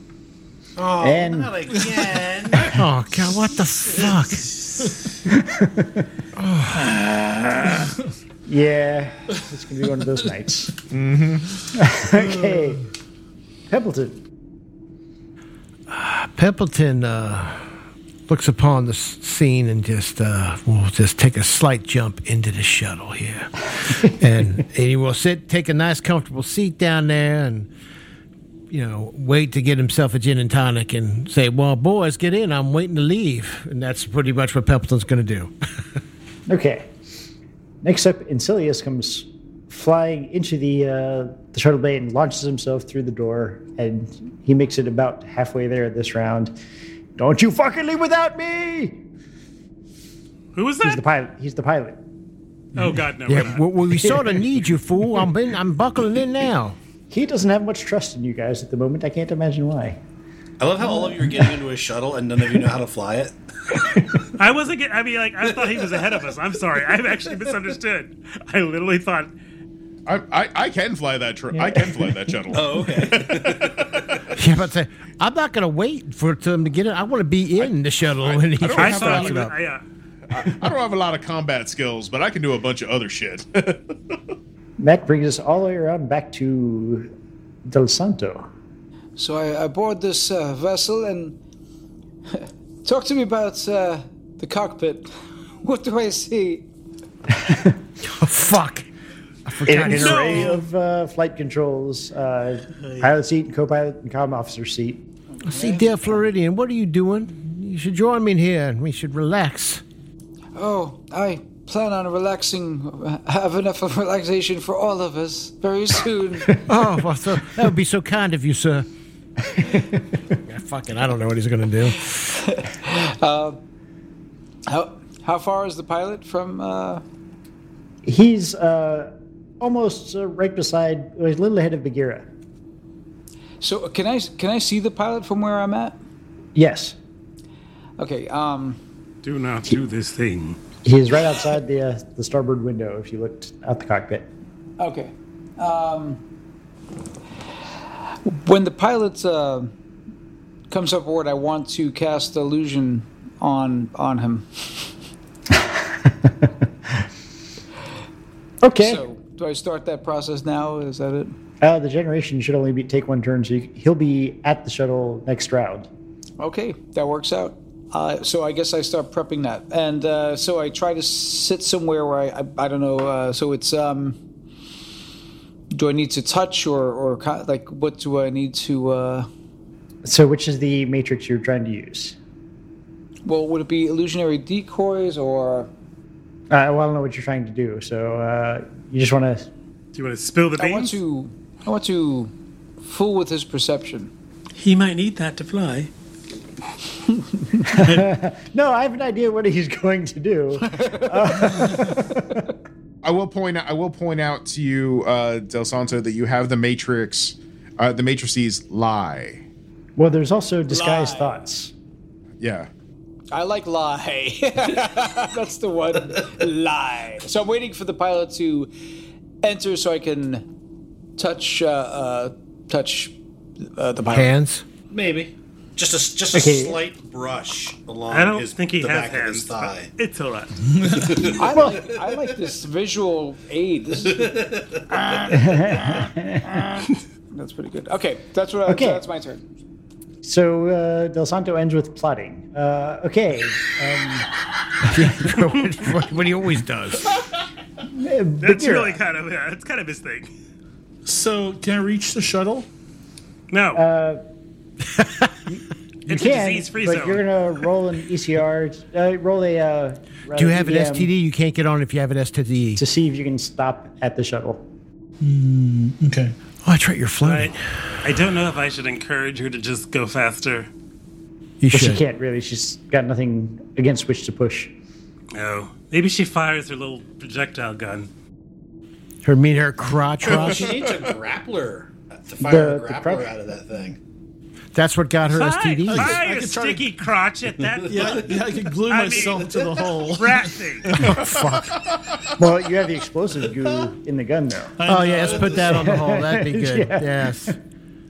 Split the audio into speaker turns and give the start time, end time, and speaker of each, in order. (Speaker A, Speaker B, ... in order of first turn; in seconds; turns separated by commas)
Speaker A: 0.8-2.8, Speaker B: 1.0-1.5, Speaker C: 2.7-4.6, Speaker D: 3.9-5.0, Speaker B: 5.3-6.1, Speaker C: 6.4-6.9, Speaker D: 6.7-8.0, Speaker B: 8.5-10.8, Speaker E: 10.9-11.6, Speaker B: 11.7-12.8, Speaker D: 12.1-12.8, Speaker B: 13.7-14.2, Speaker C: 15.9-17.6, Speaker C: 18.3-27.7, Speaker C: 28.7-35.5, Speaker B: 36.5-36.9, Speaker B: 37.8-46.5, Speaker B: 47.2-49.0, Speaker F: 50.5-51.0, Speaker B: 50.8-52.0, Speaker F: 52.8-53.7, Speaker C: 53.3-56.8, Speaker B: 54.0-54.4, Speaker B: 57.1-60.0, Speaker A: 60.6-63.3, Speaker B: 60.8-61.6, Speaker B: 63.7-64.2, Speaker F: 64.4-69.3, Speaker A: 65.7-66.0, Speaker E: 70.1-74.3, Speaker B: 71.5-72.1, Speaker A: 72.5-74.1, Speaker C: 74.3-79.5, Speaker E: 77.6-79.5, Speaker F: 78.7-79.8, Speaker E: 80.3-84.0, Speaker B: 84.8-87.1, Speaker B: 87.7-88.5, Speaker G: 89.2-91.3, Speaker G: 92.3-95.1, Speaker G: 95.6-96.7, Speaker B: 97.4-97.8, Speaker C: 98.0-98.9, Speaker C: 99.5-100.5, Speaker B: 99.7-105.0, Speaker F: 99.8-100.6, Speaker F: 102.8-103.1, Speaker C: 105.5-109.8, Speaker G: 105.5-106.0, Speaker G: 110.6-116.6, Speaker C: 116.7-118.9, Speaker B: 119.5-120.0, Speaker C: 120.5-122.3, Speaker G: 122.4-123.6, Speaker G: 124.7-127.0, Speaker B: 128.1-132.3, Speaker G: 133.6-136.0, Speaker B: 136.6-136.9, Speaker G: 138.0-138.8, Speaker F: 139.2-140.6, Speaker B: 140.8-144.3, Speaker G: 144.8-146.2, Speaker G: 148.3-149.7, Speaker G: 150.7-154.9, Speaker B: 156.1-156.3, Speaker B: 158.6-159.0, Speaker G: 158.8-161.3, Speaker B: 161.6-165.9, Speaker G: 166.4-174.2, Speaker G: 175.7-179.3, Speaker B: 180.1-182.2, Speaker G: 183.2-185.7, Speaker B: 186.5-189.5, Speaker F: 189.9-191.0, Speaker G: 190.6-194.1, Speaker F: 194.6-195.9, Speaker B: 197.6-202.4, Speaker G: 200.7-201.7, Speaker E: 203.0-209.4, Speaker B: 210.0-211.7, Speaker G: 210.7-211.4, Speaker E: 212.4-212.7, Speaker G: 213.3-218.7, Speaker G: 219.4-220.4, Speaker G: 221.2-224.3, Speaker C: 224.1-224.7, Speaker A: 224.9-229.9, Speaker B: 226.3-226.8, Speaker F: 228.1-230.7, Speaker D: 230.7-231.3, Speaker A: 231.0-231.4, Speaker G: 231.2-239.4, Speaker B: 231.4-231.9, Speaker A: 234.1-234.8, Speaker B: 235.3-236.5, Speaker B: 238.7-239.0, Speaker B: 240.2-244.3, Speaker C: 244.8-247.1, Speaker B: 245.0-245.3, Speaker B: 247.8-249.0, Speaker F: 248.4-250.3, Speaker D: 251.1-252.7, Speaker F: 253.5-253.8, Speaker B: 253.7-254.2, Speaker C: 255.0-255.3, Speaker B: 255.5-261.1, Speaker F: 256.1-257.2, Speaker C: 260.4-262.8, Speaker B: 262.8-264.6, Speaker D: 265.2-266.4, Speaker C: 266.6-268.1, Speaker F: 267.2-270.7, Speaker C: 271.6-272.0, Speaker B: 271.7-274.7, Speaker F: 275.3-278.1, Speaker C: 279.2-280.8, Speaker E: 280.3-280.9, Speaker A: 280.3-284.0, Speaker B: 282.4-283.3, Speaker C: 284.7-286.2, Speaker F: 285.3-289.6, Speaker D: 285.9-286.9, Speaker D: 287.9-290.6, Speaker A: 288.0-288.2, Speaker F: 290.1-291.1, Speaker C: 291.0-291.8, Speaker E: 291.0-292.3, Speaker B: 292.4-294.8, Speaker D: 294.8-296.0, Speaker C: 294.9-297.6, Speaker B: 295.6-297.5